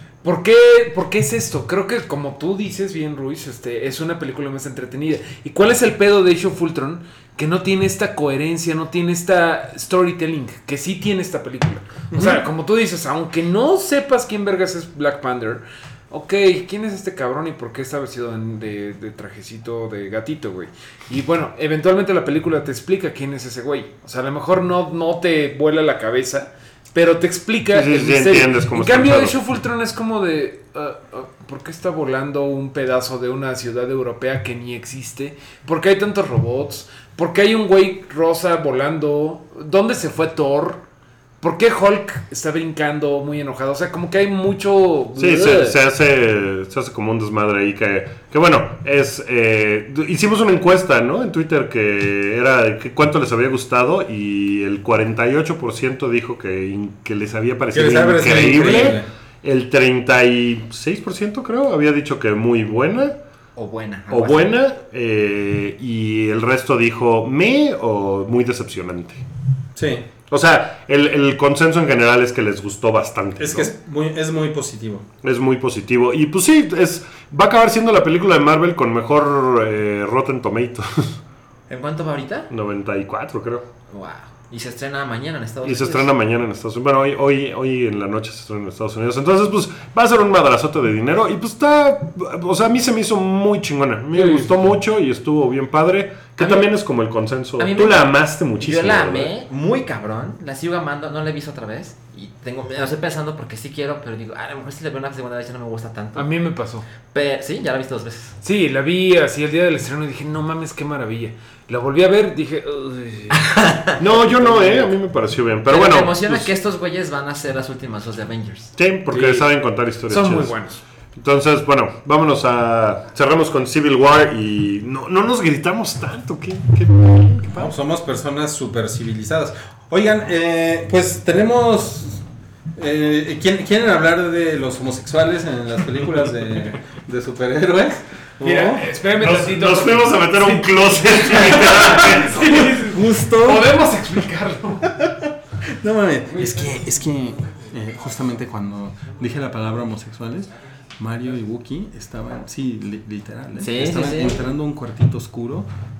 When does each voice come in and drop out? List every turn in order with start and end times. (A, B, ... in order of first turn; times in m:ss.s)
0:00.2-0:40.8 A
0:27.7-0:29.4 B
0:41.4-0:45.8 A
0:45.2-1:03.2 B
0:57.7-0:59.1 C
1:03.6-1:04.5 D
1:04.1-1:09.2 B
1:09.8-1:10.1 C
1:10.3-1:13.7 B
1:13.4-1:15.1 C
1:15.2-1:21.2 B
1:21.7-1:22.5 D
1:22.5-1:23.7 B
1:23.9-1:26.1 D
1:25.6-1:39.3 B
1:34.1-1:34.5 A
1:36.4-1:36.7 D
1:37.6-1:46.3 D
1:46.2-1:46.9 A
1:47.1-1:48.4 D
1:48.4-1:53.4 A
1:53.4-1:53.9 D
1:54.0-1:56.5 B
1:54.1-1:54.9 A
1:55.7-1:58.7 D
1:58.8-2:00.6 B
1:59.1-1:59.5 A
2:00.1-2:00.8 A
2:01.1-2:07.7 B
2:07.5-2:12.2 C
2:12.8-2:18.9 C
2:18.4-2:25.0 A
2:19.2-2:22.7 B
2:22.6-2:23.6 C
2:25.8-2:35.7 C
2:33.6-2:34.4 D